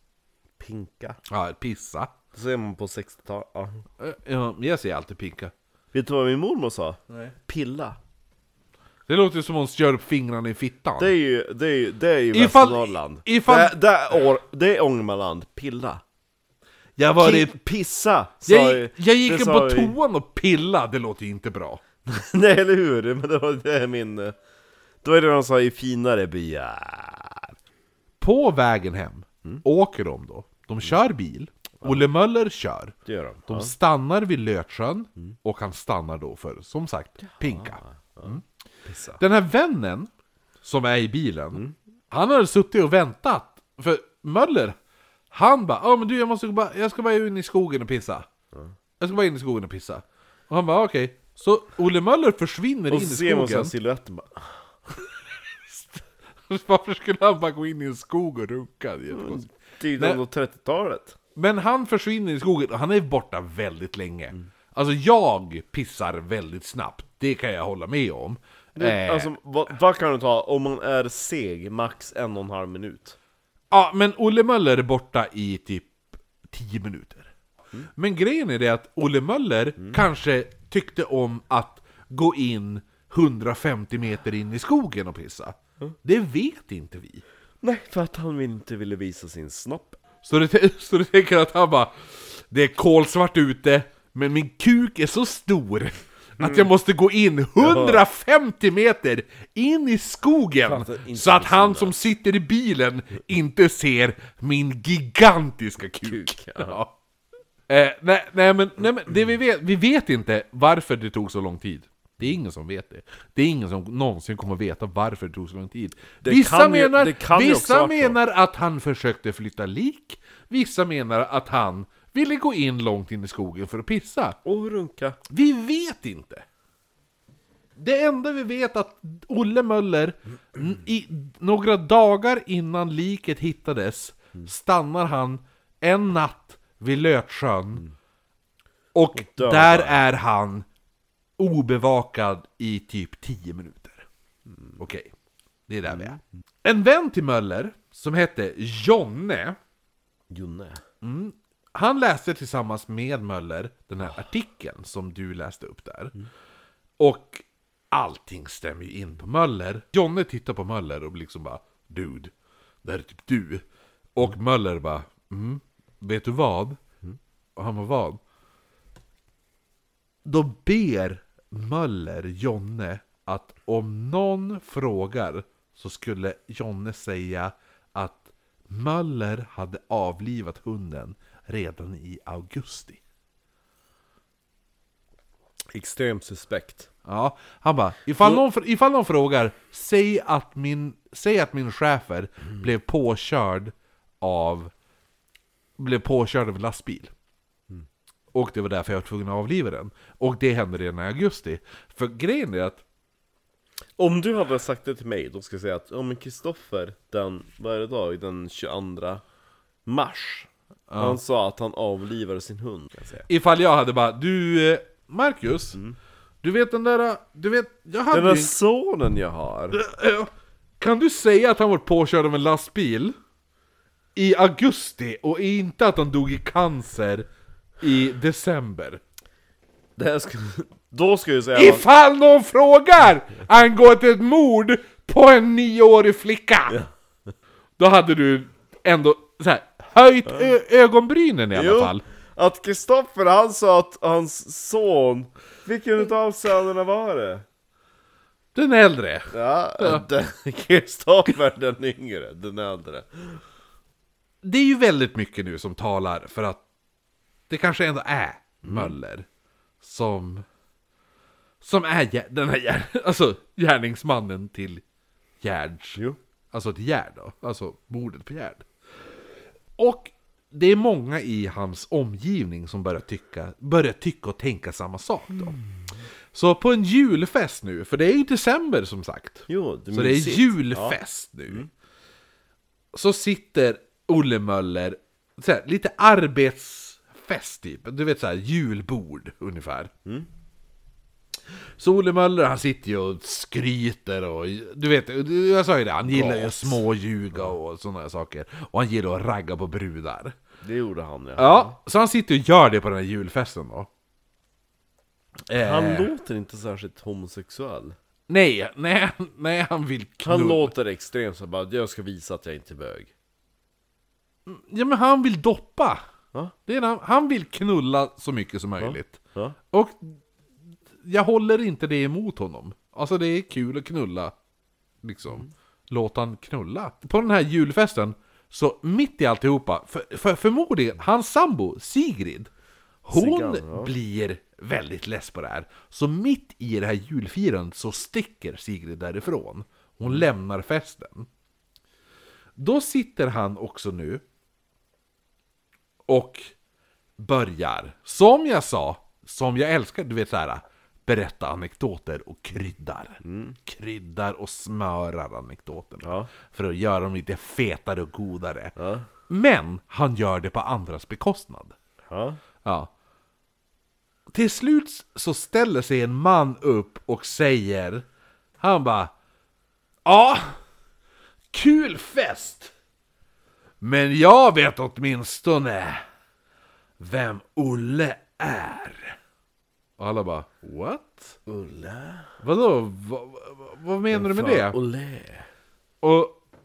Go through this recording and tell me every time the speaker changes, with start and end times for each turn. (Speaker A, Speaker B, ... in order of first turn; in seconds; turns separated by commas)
Speaker A: 0.6-1.2, Speaker B: 1.3-2.1, Speaker A: 2.3-3.8, Speaker B: 4.0-5.5, Speaker A: 5.9-8.0, Speaker B: 9.1-11.1, Speaker A: 11.0-16.0, Speaker B: 12.3-13.7, Speaker B: 17.0-17.6, Speaker A: 17.2-19.9, Speaker B: 18.4-21.8, Speaker A: 22.1-24.4, Speaker A: 25.0-27.5, Speaker B: 28.2-32.9, Speaker A: 33.0-33.7, Speaker B: 33.5-38.4, Speaker A: 37.2-39.2, Speaker B: 39.2-40.1, Speaker B: 40.6-44.8, Speaker B: 45.3-48.3, Speaker B: 49.0-53.7, Speaker A: 52.9-54.5, Speaker B: 55.7-59.4, Speaker A: 59.1-61.1, Speaker B: 60.0-60.2, Speaker B: 61.4-69.3, Speaker A: 68.7-73.2, Speaker B: 73.7-77.3, Speaker B: 77.9-87.2, Speaker A: 87.6-90.0, Speaker B: 90.2-106.9, Speaker A: 96.4-96.7, Speaker A: 97.6-98.0, Speaker A: 100.6-102.0, Speaker A: 106.0-106.8, Speaker B: 107.7-124.4, Speaker A: 116.2-118.2, Speaker A: 124.4-125.2, Speaker B: 125.3-126.4, Speaker B: 127.8-137.8, Speaker B: 138.9-140.7, Speaker A: 139.1-140.0, Speaker B: 141.4-144.0, Speaker A: 144.5-144.8, Speaker B: 144.8-145.1, Speaker B: 145.7-149.6, Speaker A: 145.9-146.2, Speaker A: 150.3-150.8, Speaker B: 151.0-156.1, Speaker B: 157.0-162.3, Speaker B: 162.8-163.6, Speaker B: 164.1-166.8, Speaker B: 167.6-168.2, Speaker B: 170.2-183.0, Speaker A: 185.7-186.9, Speaker B: 187.0-194.7, Speaker B: 195.8-197.1, Speaker B: 198.3-202.8, Speaker A: 204.0-209.2, Speaker A: 209.8-213.2, Speaker B: 210.9-211.2, Speaker B: 213.3-215.8, Speaker B: 216.4-218.5, Speaker A: 218.1-219.8, Speaker B: 219.7-223.1, Speaker B: 224.2-227.3, Speaker B: 227.8-229.0, Speaker A: 230.0-231.8, Speaker B: 231.5-236.8, Speaker B: 237.8-242.0, Speaker A: 241.5-247.4, Speaker B: 248.5-250.0, Speaker A: 249.3-253.4, Speaker B: 254.4-256.6, Speaker B: 257.5-259.2, Speaker A: 258.6-258.9, Speaker B: 259.8-260.4, Speaker B: 261.6-264.8, Speaker B: 265.4-266.0, Speaker B: 266.5-268.6, Speaker B: 269.8-275.6, Speaker A: 275.3-275.7, Speaker B: 276.3-281.7, Speaker A: 279.5-281.0, Speaker B: 282.9-289.9, Speaker B: 291.8-300.4, Speaker A: 296.0-296.8, Speaker A: 300.6-301.8, Speaker B: 301.4-303.9, Speaker B: 305.5-306.1, Speaker A: 305.6-307.9, Speaker B: 308.3-310.7, Speaker A: 310.2-313.1, Speaker B: 314.5-316.0, Speaker B: 316.6-319.2, Speaker A: 318.8-319.6, Speaker B: 319.7-320.2, Speaker B: 321.0-324.3, Speaker B: 325.0-332.5, Speaker B: 333.0-341.3, Speaker A: 333.1-333.9, Speaker B: 342.6-344.2, Speaker B: 346.1-346.5, Speaker B: 347.2-361.7, Speaker A: 353.2-353.6, Speaker A: 356.0-356.3, Speaker A: 358.8-359.1, Speaker A: 362.1-362.4, Speaker B: 362.6-362.9, Speaker B: 364.3-368.0, Speaker B: 368.6-369.1, Speaker B: 370.1-370.6, Speaker B: 371.5-372.7, Speaker B: 373.8-376.0, Speaker B: 377.0-379.1, Speaker B: 380.0-381.4, Speaker A: 381.5-382.3, Speaker B: 382.4-384.8, Speaker A: 384.1-385.5, Speaker B: 386.0-386.4